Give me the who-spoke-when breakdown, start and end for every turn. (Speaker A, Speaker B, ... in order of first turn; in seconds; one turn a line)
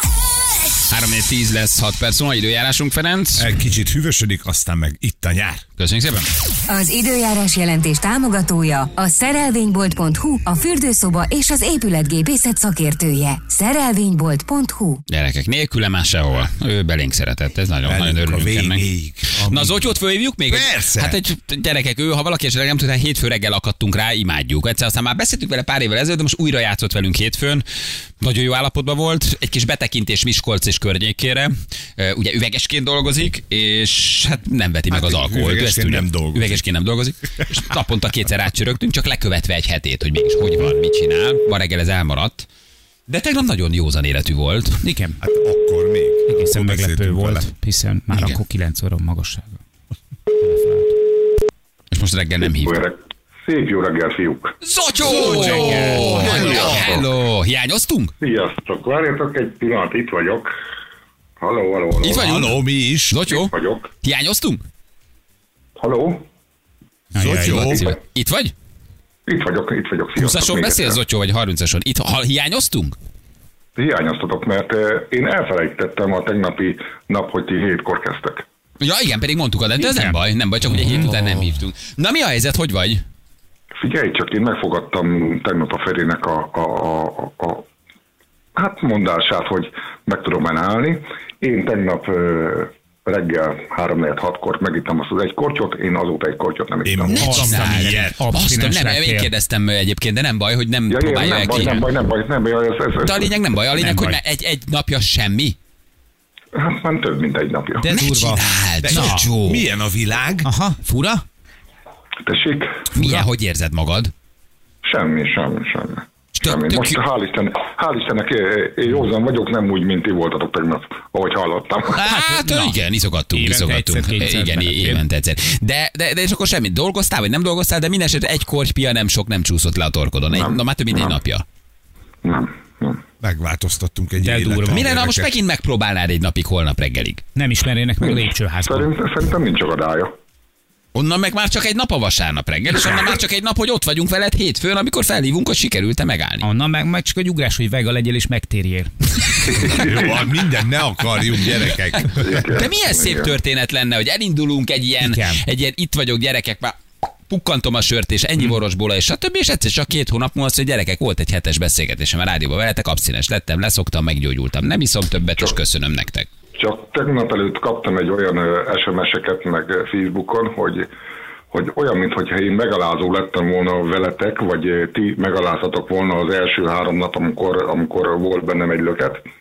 Speaker A: 0.9-3.5
Speaker B: 3.4-5.6
Speaker A: 5.8-6.3
Speaker C: 6.7-15.0
Speaker A: 15.1-18.8
Speaker B: 17.8-20.0
Speaker A: 19.5-27.6
Speaker B: 20.5-21.2
Speaker A: 28.2-42.5
Speaker B: 34.9-36.6
Speaker A: 43.1-44.9
Speaker D: 44.8-45.2
Speaker B: 45.2-47.5
Speaker D: 46.3-49.6
Speaker A: 48.1-48.4
Speaker D: 50.4-50.9
Speaker A: 51.9-52.8
Speaker E: 52.5-54.5
Speaker A: 54.6-58.1
Speaker B: 55.0-57.0
Speaker E: 55.2-55.5
Speaker D: 55.3-56.7
Speaker E: 56.0-57.1
Speaker E: 58.2-60.5
Speaker E: 61.4-62.4
Speaker A: 62.0-64.6
Speaker B: 62.0-63.2
Speaker E: 63.2-63.9
Speaker E: 65.8-66.2
Speaker D: 67.1-67.7
Speaker B: 67.2-67.9
Speaker A: 67.5-68.5
Speaker E: 69.2-71.0
Speaker A: 70.2-73.0
Speaker E: 73.8-78.4
Speaker A: 78.8-83.0
Speaker D: 79.8-80.2
Speaker D: 80.8-81.1
Speaker E: 83.8-87.7
Speaker E: 88.5-97.3
Speaker B: 96.8-98.2
Speaker A: 97.1-101.9
Speaker D: 97.2-99.3
Speaker E: 100.9-103.4
Speaker A: 103.0-105.5
Speaker D: 103.8-104.2
Speaker E: 106.5-107.9
Speaker D: 107.8-109.3
Speaker A: 107.9-109.6
Speaker B: 108.8-110.5
Speaker D: 110.4-111.2
Speaker E: 112.2-112.8
Speaker A: 112.9-114.1
Speaker D: 112.9-113.3
Speaker E: 114.8-122.0
Speaker A: 116.3-117.0
Speaker D: 122.0-122.8
Speaker A: 122.0-131.4
Speaker D: 123.3-125.0
Speaker E: 130.3-131.2
Speaker E: 132.2-133.0
Speaker B: 133.2-135.3
Speaker D: 134.2-134.9
Speaker A: 134.7-137.2
Speaker D: 137.3-138.9
Speaker E: 138.0-140.1
Speaker A: 140.9-146.5
Speaker D: 146.4-149.7
Speaker B: 149.5-152.4
Speaker E: 149.7-150.1
Speaker E: 152.1-153.3
Speaker A: 152.5-156.8
Speaker D: 155.0-155.4
Speaker A: 157.3-166.3
Speaker E: 166.6-170.9
Speaker E: 171.5-179.2